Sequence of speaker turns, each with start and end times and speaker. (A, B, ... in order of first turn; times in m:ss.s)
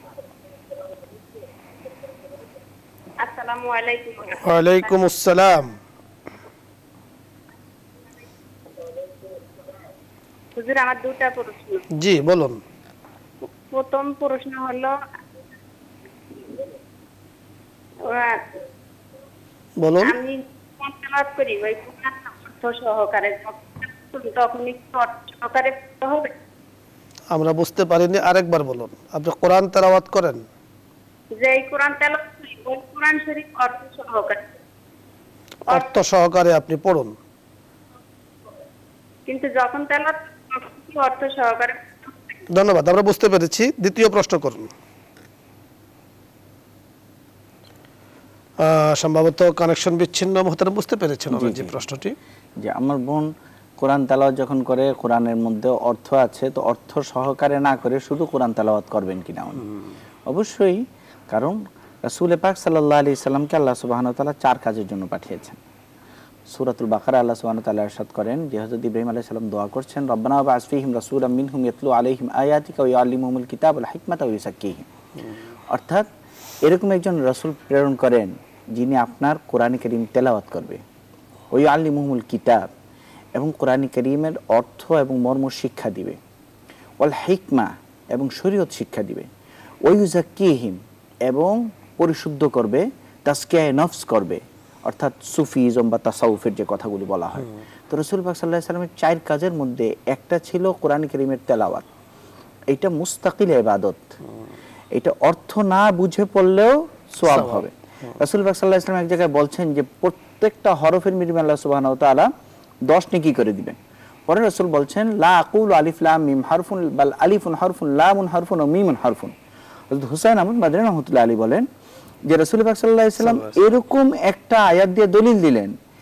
0:03.2-0:04.4 A
0:04.3-0:05.7 B
0:10.6-0:11.9 A
0:11.9-0:12.6 B
0:13.7-0:15.0 A
0:18.0-0:18.4 A
0:19.8-0:20.1 B
0:20.0-0:26.3 A
0:27.3-0:30.4 B
0:31.4-0:34.4 A
0:35.7-0:37.1 B
0:35.7-0:36.0 A
0:39.3-0:42.1 A
0:42.5-0:44.7 B
0:48.6-0:52.2 B
0:51.3-0:51.8 C
0:52.6-0:59.7 C
1:00.3-1:05.6 C
1:06.5-1:14.9 C
1:15.7-1:16.1 C
1:16.6-1:20.8 C
1:21.5-1:22.7 C
1:23.4-1:26.2 C
1:27.0-1:29.3 C
1:29.9-1:41.9 C
1:42.7-1:44.1 C
1:44.9-1:52.3 C
1:47.3-1:47.6 B
1:52.9-1:53.8 C
1:54.3-1:59.3 C
1:59.9-2:01.7 C
2:02.3-2:05.7 C
2:03.2-2:03.5 B